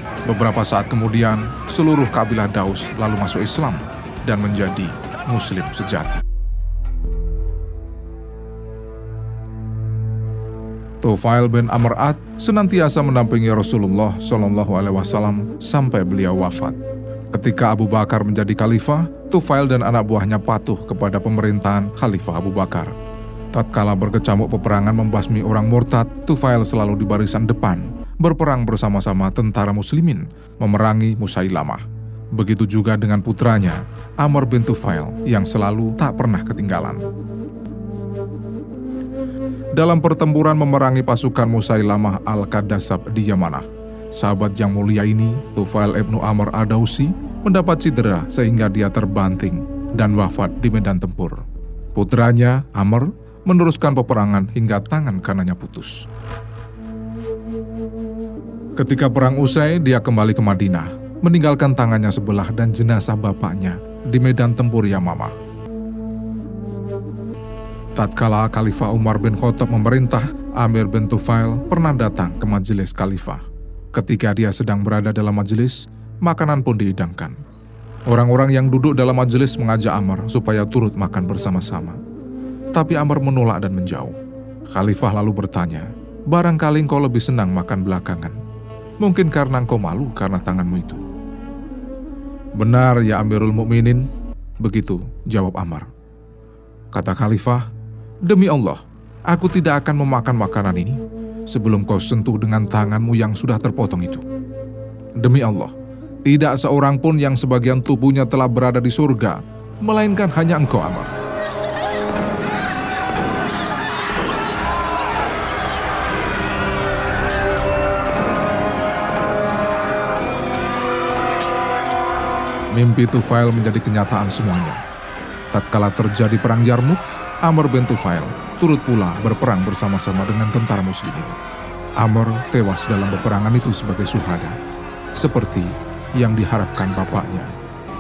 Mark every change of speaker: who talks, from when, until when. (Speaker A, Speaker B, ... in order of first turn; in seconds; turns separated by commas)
Speaker A: 0.3-6.2, Speaker A: 11.0-16.8, Speaker A: 17.3-22.9, Speaker A: 23.5-37.0, Speaker A: 39.7-51.4, Speaker A: 51.9-56.1, Speaker A: 58.8-65.4, Speaker A: 68.0-77.4, Speaker A: 78.1-82.0, Speaker A: 82.7-84.2, Speaker A: 84.7-88.4, Speaker A: 89.0-91.0, Speaker A: 92.6-94.1, Speaker A: 94.6-95.9, Speaker A: 96.9-97.7, Speaker A: 98.2-104.2, Speaker A: 105.2-105.7, Speaker A: 106.2-111.1, Speaker A: 122.7-124.8, Speaker A: 125.5-131.4, Speaker A: 132.0-134.6, Speaker A: 135.2-137.5